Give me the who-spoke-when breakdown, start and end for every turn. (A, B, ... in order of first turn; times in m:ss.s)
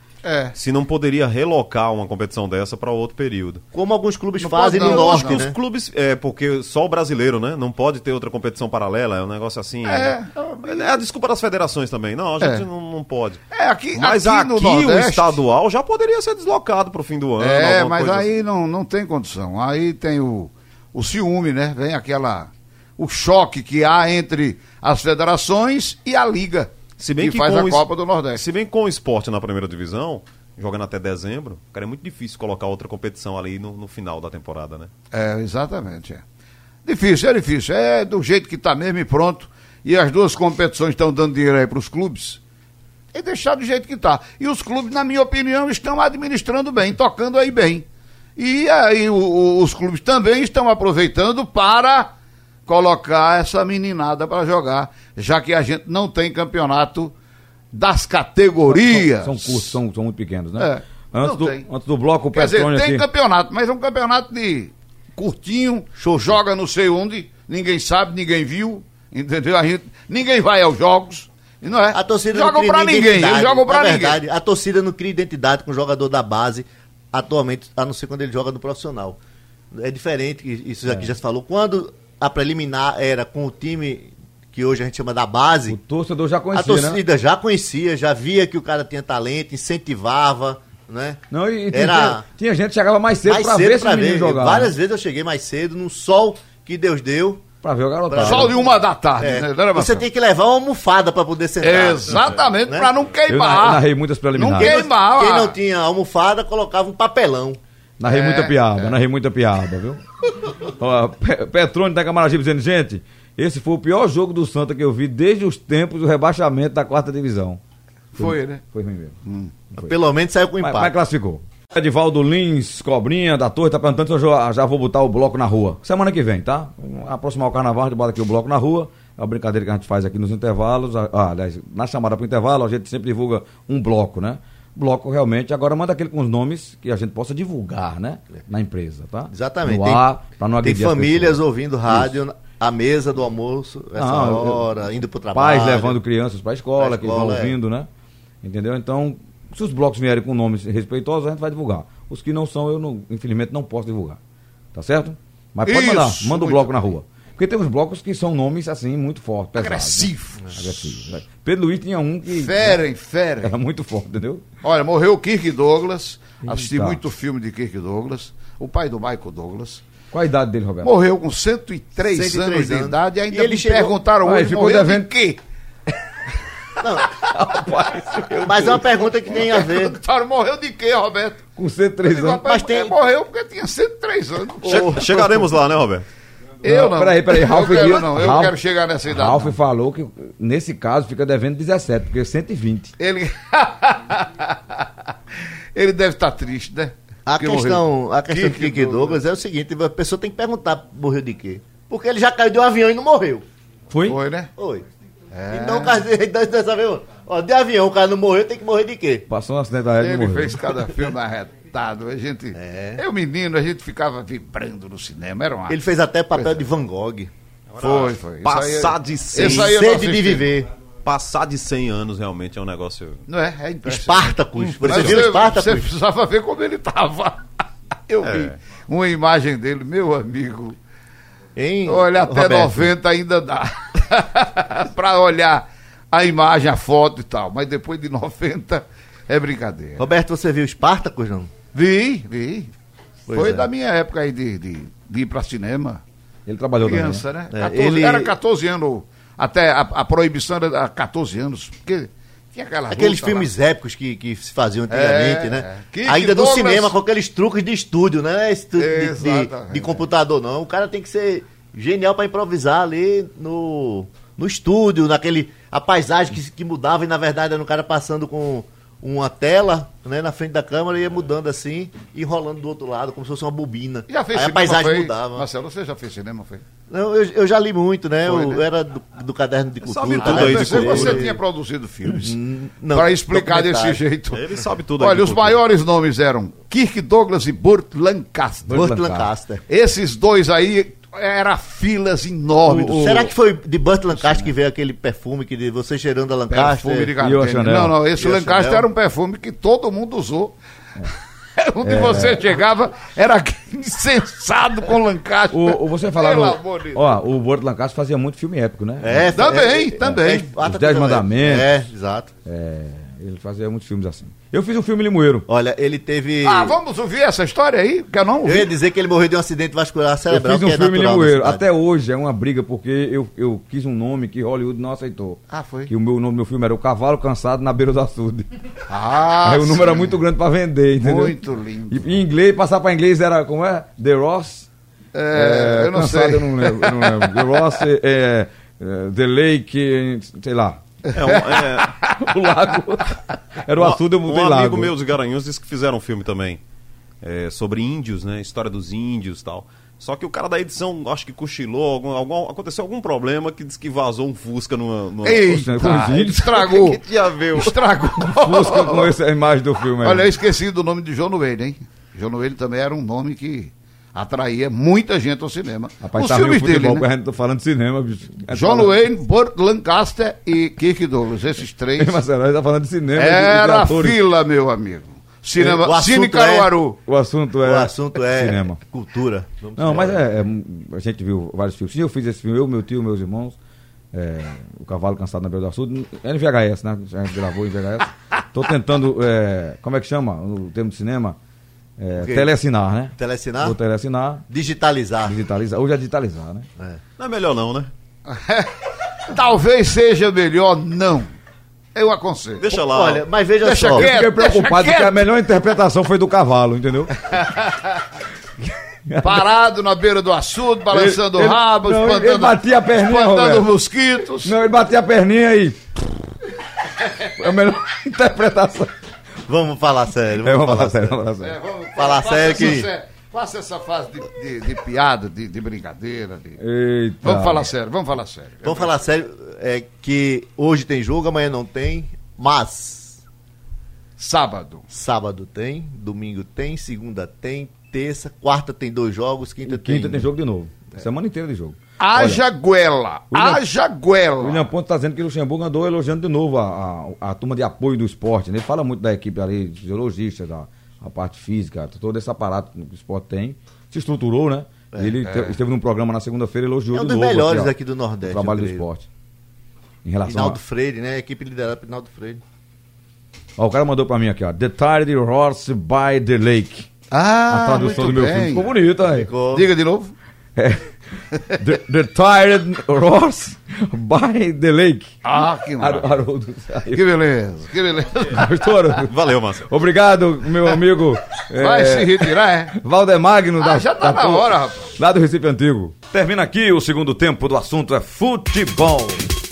0:00.2-0:00.5 A
0:00.5-0:03.6 B
0:03.7-0:05.6 C
0:04.4-0:05.4 A
0:04.5-0:13.4 B
0:09.8-0:10.9 A
0:13.5-0:15.4 A
0:13.9-0:18.3 B
0:17.4-0:28.4 A
0:27.0-0:34.9 B
0:35.1-0:36.2 A
0:36.8-0:42.4 A
0:43.1-0:47.8 A
0:48.4-0:52.1 A
0:52.6-0:57.1 A
0:57.7-0:59.8 A
0:58.7-1:03.0 D
1:00.6-1:01.7 A
1:02.3-1:14.2 A
1:06.0-1:06.4 C
1:11.9-1:19.2 C
1:19.7-1:25.8 C
1:25.7-1:27.0 D
1:26.5-1:32.2 C
1:31.3-1:34.7 D
1:33.3-1:37.4 C
1:37.6-1:38.5 D
1:38.1-1:38.6 C
1:38.2-1:40.1 A
1:39.2-1:42.9 C
1:41.6-1:45.6 A
1:43.3-1:44.8 D
1:44.6-1:48.3 C
1:48.0-1:50.0 D
1:48.3-1:48.9 A
1:50.6-1:57.6 D
1:58.1-1:58.6 A
1:58.2-1:59.2 D
1:59.2-1:59.5 A
1:59.7-2:00.9 C
2:00.6-2:22.2 D
2:19.3-2:20.0 C
2:20.6-2:26.0 C
2:24.0-2:24.7 D
2:25.3-2:27.9 D
2:26.8-2:27.5 C
2:28.4-2:34.2 D
2:34.7-2:42.8 D
2:35.6-2:36.7 A
2:39.6-2:41.0 A
2:42.3-2:43.6 A
2:43.4-2:44.4 D
2:44.6-2:49.8 A
2:46.4-2:47.0 D
2:50.1-2:50.9 D
2:50.8-2:55.4 A
2:52.1-2:54.0 C
2:54.2-2:55.1 D
2:56.8-2:57.5 C
2:57.1-2:59.0 D
2:58.3-2:59.9 C
2:58.9-3:01.5 A
3:01.6-3:02.4 D
3:02.0-3:05.0 A
3:02.4-3:02.9 C
3:04.6-3:06.0 B
3:04.6-3:05.4 C
3:06.6-3:08.6 D
3:06.6-3:09.5 A
3:09.1-3:12.9 D
3:13.0-3:14.8 A
3:15.7-3:19.2 A
3:17.2-3:23.4 C
3:23.9-3:24.2 D
3:24.1-3:24.5 A
3:24.6-3:24.8 C
3:25.3-3:26.0 A
3:25.5-3:29.3 C
3:29.3-3:30.6 D
3:30.0-3:35.8 A
3:32.6-3:33.0 C
3:35.7-3:37.3 C
3:36.3-3:36.6 A
3:37.7-3:39.8 B
3:37.8-3:40.5 A
3:39.4-3:40.7 C
3:41.0-3:43.2 B
3:43.3-3:47.4 A
3:43.8-3:45.9 C
3:48.1-3:50.8 A
3:48.2-3:48.6 B
3:51.6-3:52.9 C
3:51.8-4:00.1 A
4:00.0-4:01.5 C
4:01.7-4:02.7 A
4:03.3-4:03.7 C
4:03.3-4:06.0 A
4:06.4-4:07.2 D
4:06.8-4:13.5 A
4:07.5-4:08.3 C
4:12.9-4:35.4 C
4:14.9-4:16.9 A
4:18.8-4:20.0 A
4:34.1-4:36.6 A
4:36.9-4:41.4 C
4:38.2-4:38.6 A
4:39.8-4:41.2 B
4:40.2-4:42.4 A
4:42.1-4:44.0 C
4:42.9-4:44.4 A
4:44.3-4:45.6 B
4:45.0-4:48.9 A
4:48.6-4:49.3 D
4:48.7-4:49.6 C
4:49.7-4:53.3 A
4:52.6-4:53.3 D
4:53.0-4:57.1 C
4:54.2-4:54.5 A
4:56.5-5:07.2 A
4:57.2-4:58.0 D
4:58.2-4:58.9 C
5:01.8-5:02.6 D
5:05.5-5:09.3 D
5:09.0-5:12.3 C
5:09.3-5:10.5 A
5:10.0-5:11.7 D
5:12.4-5:15.5 D
5:15.5-5:16.8 C
5:16.4-5:18.7 A
5:18.4-5:21.6 C
5:20.3-5:28.5 D
5:25.5-5:25.9 A
5:28.9-5:30.2 A
5:29.4-5:31.4 D
5:31.0-5:32.1 A
5:31.9-5:34.7 D
5:35.1-5:37.7 A
5:35.3-5:40.8 D
5:41.1-5:42.0 B
5:42.2-5:44.9 D
5:43.8-5:46.6 B
5:47.2-5:55.5 B
5:55.2-5:57.0 A
5:55.4-5:56.6 D
5:56.5-5:57.7 B
5:57.5-5:59.1 A
5:58.2-6:00.3 D
6:00.0-6:07.0 A
6:06.0-6:09.0 D
6:08.5-6:12.2 A
6:12.0-6:14.2 D
6:13.1-6:17.0 A
6:15.6-6:16.7 C
6:17.0-6:18.8 D
6:17.6-6:20.2 C
6:19.8-6:23.6 D
6:24.1-6:31.4 D
6:32.0-6:34.4 D
6:32.2-6:32.5 C
6:33.2-6:33.8 C
6:34.5-6:35.4 C
6:35.2-6:36.7 D
6:37.2-6:37.9 B
6:38.2-6:41.3 A
6:41.9-6:42.6 A
6:42.6-6:43.2 B
6:42.7-6:44.1 C
6:43.6-6:45.3 A
6:43.9-6:47.1 D
6:47.4-6:47.8 A
6:49.0-6:49.5 D
6:49.2-6:54.6 A
6:50.9-6:53.7 D
6:54.4-6:55.8 D
6:57.2-6:58.9 D
6:59.4-7:01.2 C
7:00.4-7:01.6 D
7:01.4-7:06.6 A
7:02.0-7:02.9 C
7:06.6-7:07.7 D
7:07.2-7:09.0 A
7:08.6-7:13.2 C
7:14.2-7:14.8 A
7:14.9-7:20.2 C
7:19.7-7:22.4 D
7:22.0-7:24.6 A
7:23.3-7:23.6 D
7:24.4-7:37.7 D
7:35.2-7:35.6 A
7:36.9-7:38.8 C
7:38.3-7:39.0 D
7:40.0-7:40.6 D
7:40.3-7:42.4 C
7:43.6-7:46.9 D
7:47.1-7:48.7 A
7:47.5-7:49.3 D
7:49.0-7:49.7 C
7:49.5-7:50.1 A
7:50.6-7:50.9 D
7:51.5-7:55.2 D
7:55.2-7:56.2 A
7:55.8-7:57.0 D
7:56.9-7:58.5 A
7:58.2-7:59.1 D
7:58.9-7:59.7 B
7:59.7-8:09.3 D
8:01.5-8:02.8 A
8:03.6-8:04.9 A